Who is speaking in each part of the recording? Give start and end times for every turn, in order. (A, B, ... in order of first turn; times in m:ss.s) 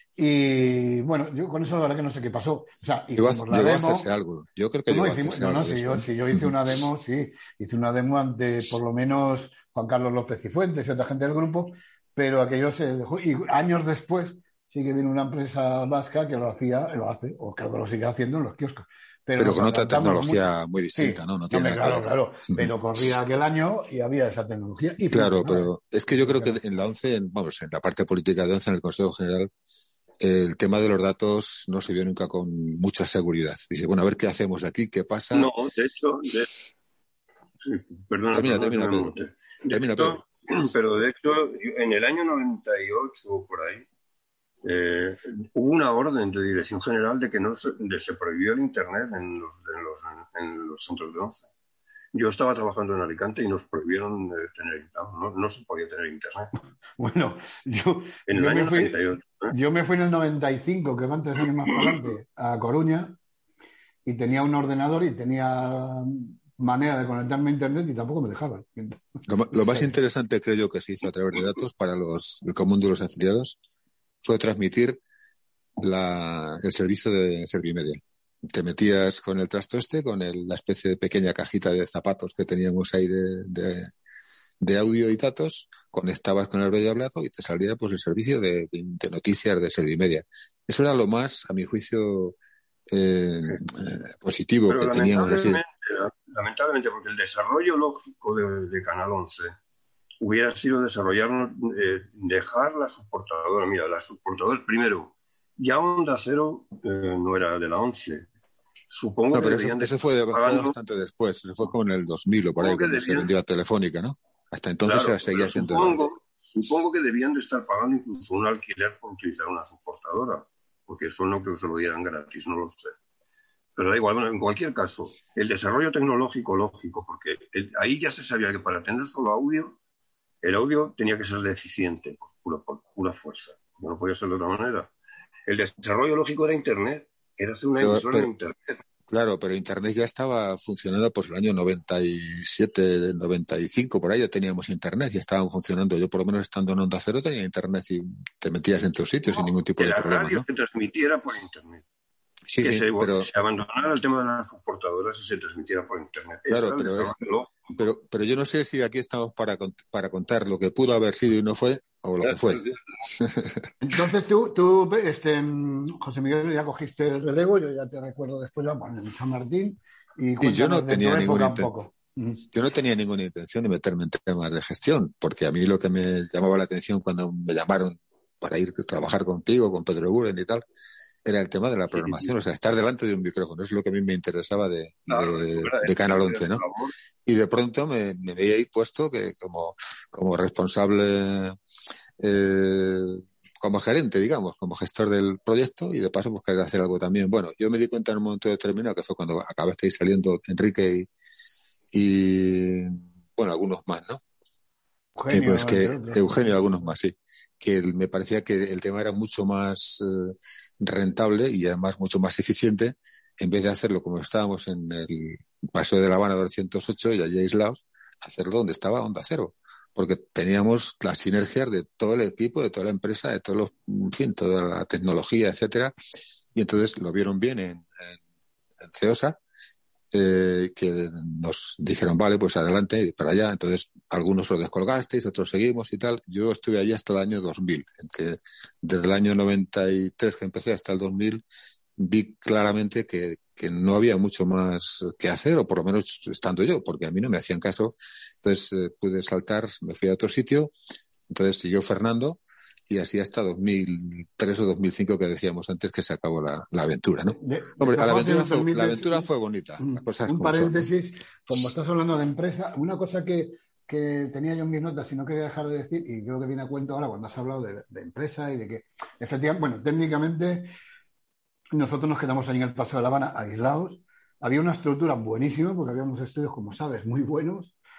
0:00.2-0:04.1 A
0:03.2-0:06.5 B
0:04.9-0:26.6 A
0:19.4-0:22.7 B
0:25.1-0:29.5 B
0:30.2-0:35.5 B
0:35.3-0:36.5 C
0:37.6-0:43.8 C
0:38.3-0:39.1 B
0:39.7-0:40.2 B
0:44.6-0:51.4 C
0:52.1-0:56.5 C
0:57.0-0:58.9 A
0:58.3-0:59.5 C
0:59.5-1:03.2 A
1:04.0-1:09.0 A
1:09.3-1:13.6 B
1:14.2-1:15.0 B
1:15.8-1:23.9 B
1:24.6-1:32.3 B
1:32.9-1:35.6 B
1:34.7-1:39.5 C
1:40.2-1:48.3 C
1:48.9-1:50.7 C
1:49.3-1:56.1 B
1:52.6-1:53.3 C
1:54.8-2:02.9 C
2:03.8-2:09.8 C
2:10.4-2:14.9 C
2:15.5-2:18.8 C
2:17.8-2:18.3 B
2:19.1-2:30.4 B
2:29.3-2:31.8 C
2:32.5-2:33.3 B
2:32.6-2:37.8 C
2:36.5-2:37.1 B
2:37.8-2:42.6 B
2:42.2-2:42.7 C
2:43.2-2:43.5 B
2:43.8-2:52.4 A
2:50.4-2:51.7 B
2:52.5-3:00.6 B
3:01.2-3:06.6 B
3:01.9-3:02.4 C
3:05.1-3:06.9 C
3:07.2-3:11.6 B
3:12.2-3:21.1 B
3:21.9-3:24.2 B
3:25.2-3:26.6 A
3:25.3-3:45.9 B
3:46.5-3:48.2 B
3:48.8-3:49.4 B
3:50.1-4:01.4 B
4:02.0-4:10.7 B
4:11.3-4:20.9 B
4:17.3-4:19.3 A
4:19.8-4:30.7 A
4:31.7-4:37.7 A